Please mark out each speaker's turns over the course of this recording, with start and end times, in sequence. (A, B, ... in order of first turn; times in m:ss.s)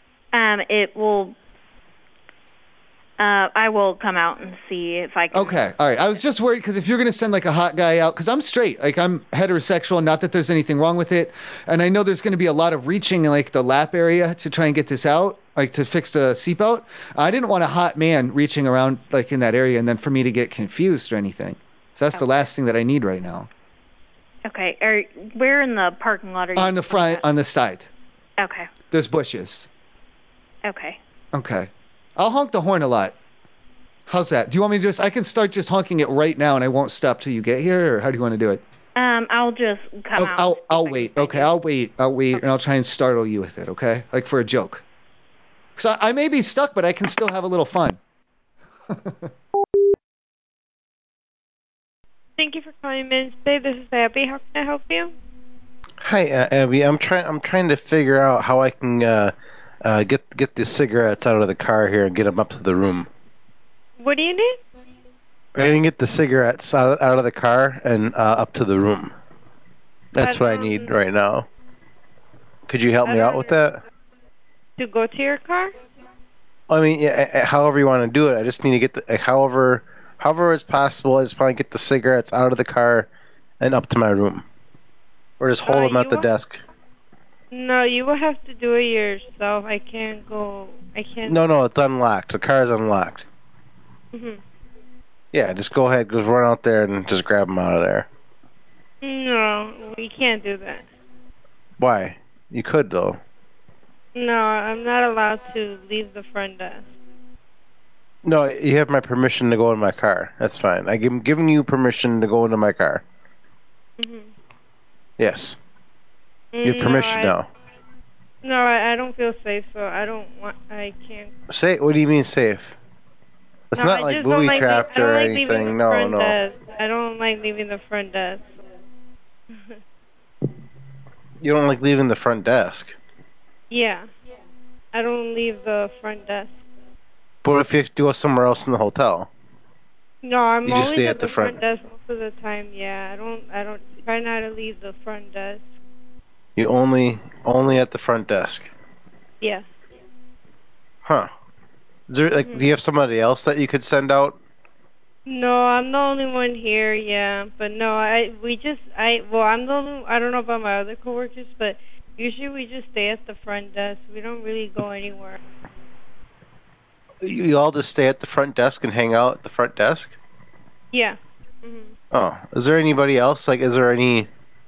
0:00.3-0:01.3 A
0:03.2-0:05.6 A
0:05.3-0:23.5 B
0:22.1-0:22.4 A
0:24.4-0:27.2 A
0:26.6-0:27.9 B
0:28.4-0:28.7 A
0:28.9-0:29.7 B
0:30.6-0:31.0 A
0:31.3-0:33.2 B
0:34.1-0:38.6 B
0:39.0-0:41.5 A
0:40.2-0:44.8 B
0:45.8-0:48.0 B
0:48.9-0:49.3 B
0:52.4-0:55.1 C
0:56.0-1:03.1 D
1:04.0-1:04.6 C
1:05.6-1:09.1 D
1:10.1-1:11.4 D
1:10.2-1:10.9 C
1:12.7-1:13.8 D
1:13.0-1:13.6 C
1:14.8-1:15.7 C
1:16.7-1:23.1 D
1:23.6-1:24.4 D
1:25.4-1:26.6 D
1:25.6-1:26.3 C
1:27.5-1:31.4 C
1:31.2-1:33.2 D
1:34.1-1:34.4 C
1:35.3-1:38.1 D
1:39.0-1:40.9 C
1:41.8-1:43.2 D
1:44.1-1:46.9 C
1:48.2-1:53.0 D
1:54.0-1:54.3 C
1:55.2-1:55.6 D
1:56.5-1:57.4 C
1:56.6-1:57.5 D
1:58.4-2:01.3 C
2:01.5-2:02.7 D
2:03.7-2:06.4 D
2:03.7-2:08.6 C
2:09.5-2:09.8 C
2:11.4-2:12.9 D
2:13.7-2:14.1 C
2:14.9-2:16.6 C
2:17.4-2:19.3 D
2:20.2-2:25.7 C
2:20.6-2:21.6 D
2:26.6-2:28.7 D
2:31.0-2:31.3 D
2:32.1-2:34.4 D
2:32.4-2:32.7 C
2:35.3-2:45.4 C
2:47.2-2:50.1 D
2:50.9-2:51.9 C
2:52.1-2:54.3 D